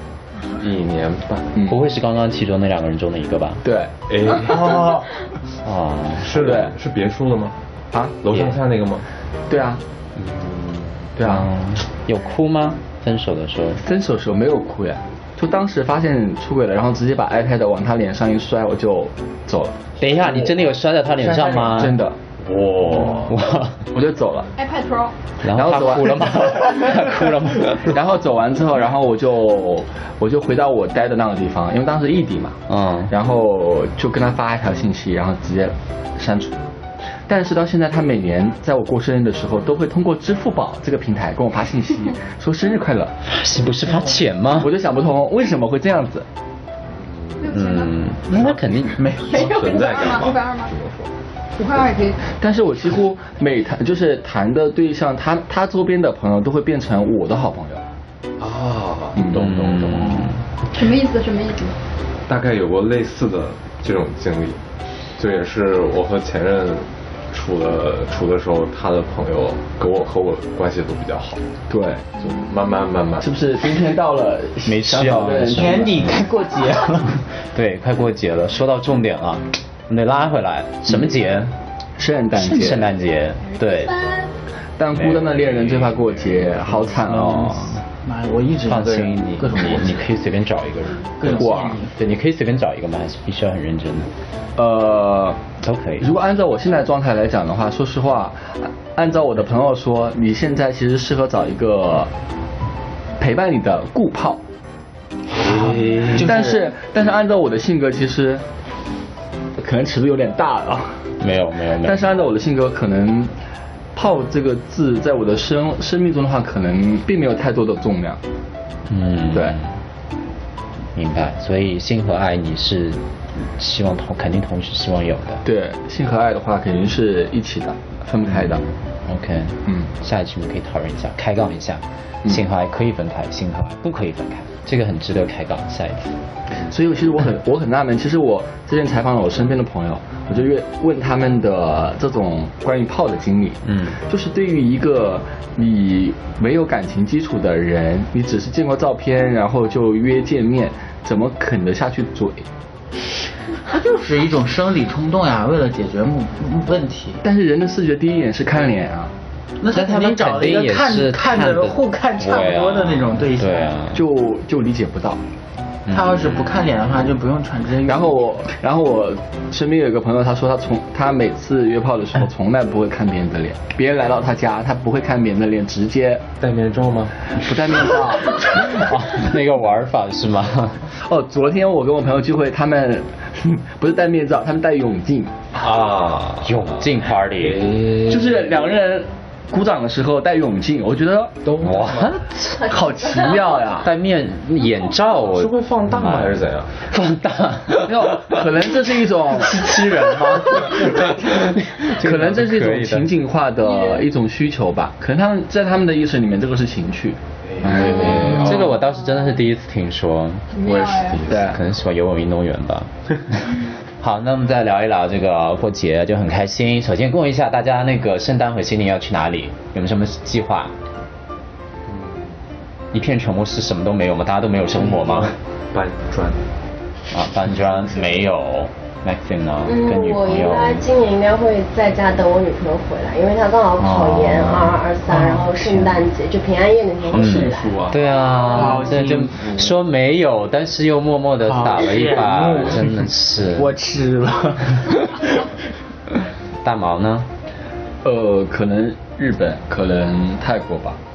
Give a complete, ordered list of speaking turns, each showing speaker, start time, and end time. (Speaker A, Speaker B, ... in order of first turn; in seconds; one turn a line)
Speaker A: 0.5-1.5
Speaker B: 1.6-3.6
Speaker C: 3.6-3.9
Speaker A: 4.1-5.0
Speaker D: 4.4-5.1
Speaker B: 5.6-6.3
Speaker A: 6.2-7.5
Speaker C: 6.4-6.7
Speaker C: 7.9-8.2
Speaker A: 8.2-9.0
Speaker C: 9.5-9.8
Speaker A: 10.2-11.2
Speaker C: 11.2-11.5
Speaker B: 11.2-13.8
Speaker C: 13.8-20.5
Speaker B: 20.0-22.0
Speaker C: 21.2-22.2
Speaker A: 22.4-23.3
Speaker B: 22.9-23.8
Speaker C: 23.9-24.5
Speaker E: 24.6-25.1
Speaker B: 25.4-27.9
Speaker C: 25.5-26.6
Speaker C: 27.7-36.6
Speaker B: 32.7-33.1
Speaker C: 37.3-43.1
Speaker B: 43.2-44.7
Speaker C: 44.6-46.3
Speaker A: 46.9-47.5
Speaker E: 47.4-47.9
Speaker B: 47.5-49.1
Speaker D: 48.3-49.6
Speaker E: 49.2-50.7
Speaker A: 49.3-51.1
Speaker E: 51.6-52.2
Speaker C: 52.4-57.8
Speaker A: 58.4-60.2
Speaker B: 59.4-60.4
Speaker E: 60.7-61.8
Speaker A: 62.3-64.6
Speaker A: 65.2-71.4
Speaker C: 71.7-72.1
Speaker A: 72.2-73.3
Speaker C: 73.2-75.9
Speaker B: 74.6-76.3
Speaker D: 75.5-77.2
Speaker B: 77.3-81.5
Speaker C: 82.0-82.8
Speaker B: 82.3-84.0
Speaker E: 83.5-84.3
Speaker C: 84.8-87.8
Speaker B: 84.9-85.9
Speaker B: 86.7-87.8
Speaker D: 88.0-90.1
Speaker B: 88.7-94.1
Speaker D: 91.2-91.9
Speaker C: 91.3-91.8
Speaker C: 94.5-95.4
Speaker B: 95.6-96.1
Speaker C: 96.0-102.1
Speaker C: 103.2-104.4
Speaker D: 105.4-106.7
Speaker A: 105.5-106.2
Speaker C: 106.2-108.4
Speaker C: 109.6-111.0
Speaker B: 111.2-112.2
Speaker C: 111.8-113.3
Speaker C: 113.9-118.2
Speaker B: 118.9-119.7
Speaker C: 119.3-119.6
Speaker B: 120.9-125.4
Speaker C: 125.4-128.6
Speaker B: 128.2-136.2
Speaker C: 136.6-152.5
Speaker B: 143.7-144.0
Speaker D: 153.6-157.2
Speaker C: 157.2-159.1
Speaker D: 159.6-163.7
Speaker B: 159.7-164.0
Speaker C: 163.9-165.2
Speaker B: 165.9-166.5
Speaker D: 165.9-168.2
Speaker C: 167.8-176.2
Speaker A: 176.4-177.3
Speaker C: 177.3-178.9
Speaker B: 178.4-180.9
Speaker C: 181.0-185.4
Speaker A: 185.6-188.6
Speaker B: 186.4-187.7
Speaker C: 188.1-191.3
Speaker A: 191.4-192.2
Speaker B: 191.6-192.7
Speaker C: 192.6-193.9
Speaker B: 193.8-198.2
Speaker A: 195.3-196.8
Speaker C: 197.8-199.7
Speaker B: 199.4-203.1
Speaker C: 201.8-208.5
Speaker E: 203.6-204.1
Speaker A: 207.5-208.7
Speaker B: 207.7-210.5
Speaker E: 210.5-211.2
Speaker A: 210.7-211.5
Speaker C: 211.3-211.6
Speaker B: 211.3-220.7
Speaker A: 221.9-222.4
Speaker B: 222.9-225.4
Speaker A: 224.8-226.4
Speaker B: 227.1-230.8
Speaker F: 229.7-237.7
Speaker B: 233.8-234.8
Speaker D: 235.1-235.9
Speaker A: 237.1-238.1
Speaker B: 237.2-243.7
Speaker D: 238.5-239.6
Speaker D: 241.4-245.5
Speaker B: 246.6-247.3
Speaker C: 248.0-251.0